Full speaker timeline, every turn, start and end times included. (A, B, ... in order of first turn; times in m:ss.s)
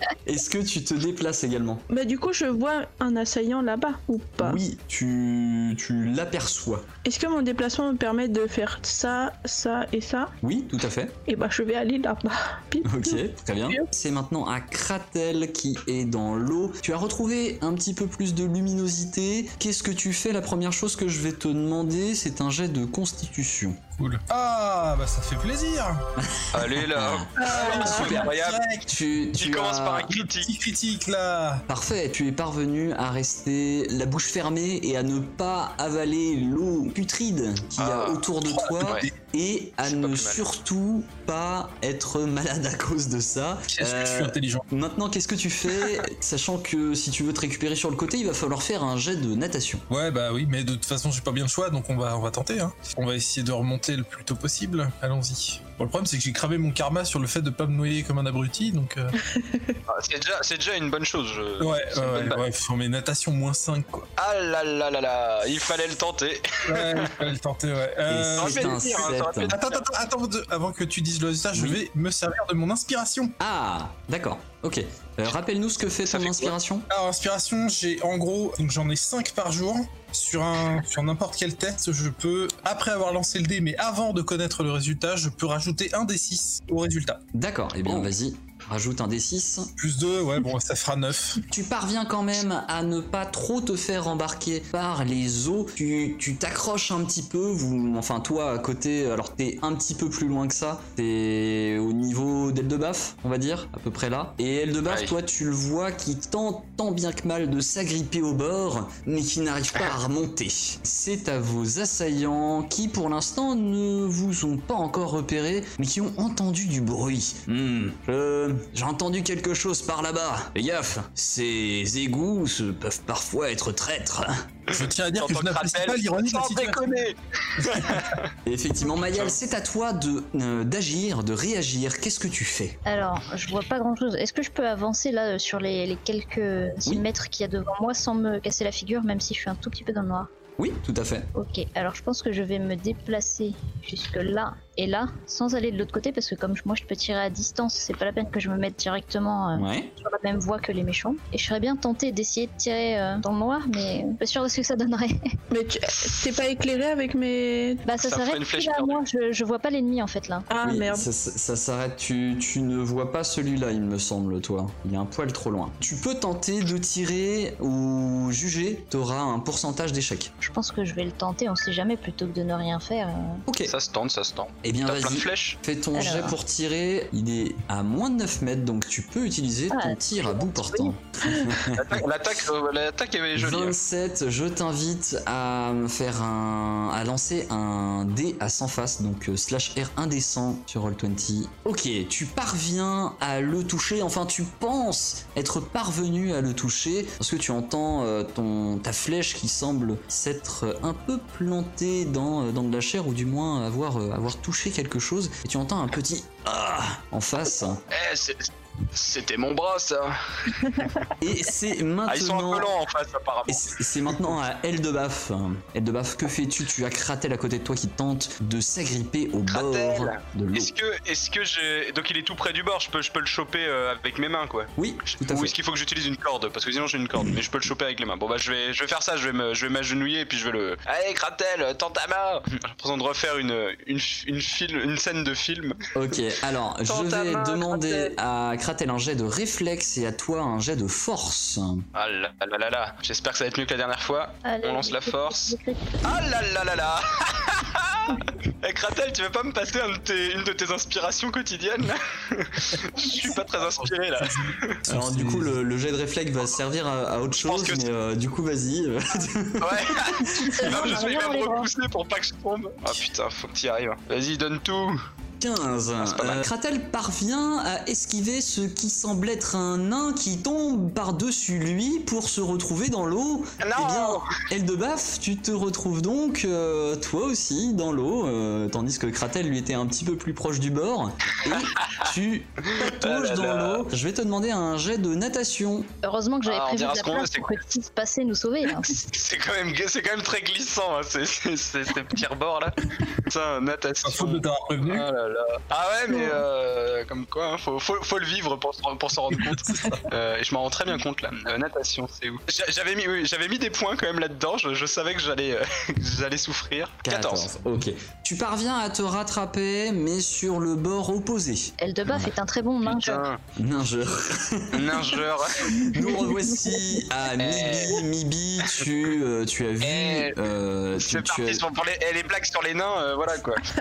0:00.2-0:01.8 A
0:01.9-0:04.6 B
0:04.4-0:06.9 A
0:07.0-0:10.3 B
0:10.4-0:11.1 A
0:11.3-0:13.9 B
0:12.8-0:23.8 A
0:24.0-0:26.0 C
0:26.2-0:27.3 A
0:26.5-0:28.7 D
0:27.4-0:28.9 C
0:27.5-0:28.2 B
0:28.9-0:30.1 A
0:29.4-0:30.6 D
0:30.1-0:31.6 C
0:31.7-0:49.8 A
0:37.8-0:38.3 D
0:38.5-0:39.1 C
0:38.8-0:39.1 D
0:39.8-0:40.4 D
0:43.7-0:44.7 C
0:49.9-0:59.2 C
0:59.2-0:59.8 B
0:59.9-1:02.4 D
1:01.6-1:04.1 C
1:04.2-1:07.1 D
1:06.7-1:13.4 C
1:08.1-1:09.6 A
1:08.4-1:09.8 D
1:11.5-1:11.8 A
1:13.4-1:16.9 A
1:16.1-1:16.5 D
1:16.9-1:27.2 C
1:27.3-1:29.7 A
1:27.9-1:28.1 C
1:29.8-1:31.4 C
1:31.5-2:04.5 A
2:04.7-2:08.3 D
2:04.7-2:06.9 C
2:07.6-2:08.1 C
2:08.4-2:12.8 A
2:09.0-2:09.4 D
2:12.9-2:20.3 E
2:20.6-2:21.3 A
2:21.4-2:35.2 E
2:29.5-2:29.9 A
2:35.5-2:37.8 B
2:37.9-2:40.5 E
2:38.0-2:39.0 D
2:40.5-2:41.1 B
2:40.6-2:50.3 A
2:50.4-2:53.4 E
2:53.5-2:53.7 A
2:53.7-2:55.6 D
2:54.6-3:02.0 A
2:56.0-2:56.4 E
2:59.7-3:00.9 E
3:01.7-3:03.8 D
3:03.4-3:27.8 A
3:27.9-3:30.7 D
3:31.2-3:32.7 A
3:32.1-3:33.7 D
3:33.5-3:40.7 A
3:39.5-3:55.8 D
3:44.8-3:45.5 A
3:56.0-4:01.8 A
3:56.9-3:58.1 D
4:02.0-4:14.8 D
4:04.4-4:06.0 E
4:14.2-4:15.6 C
4:14.9-4:20.5 A
4:17.4-4:17.9 D
4:19.6-4:25.0 D
4:20.4-4:21.7 E
4:25.4-4:45.9 A
4:26.0-4:26.4 D
4:33.6-4:34.3 D
4:42.7-4:43.9 D
4:46.0-4:49.1 E
4:46.5-4:47.5 D
4:48.9-5:07.5 D
4:54.0-4:55.1 C
4:59.6-5:00.0 C
5:07.0-5:12.3 A
5:11.8-5:13.3 E
5:12.8-5:13.4 D
5:13.6-5:21.6 A
5:14.7-5:15.8 D
5:16.3-5:16.8 B
5:17.4-5:18.0 D
5:19.8-5:20.4 D
5:21.0-5:23.6 D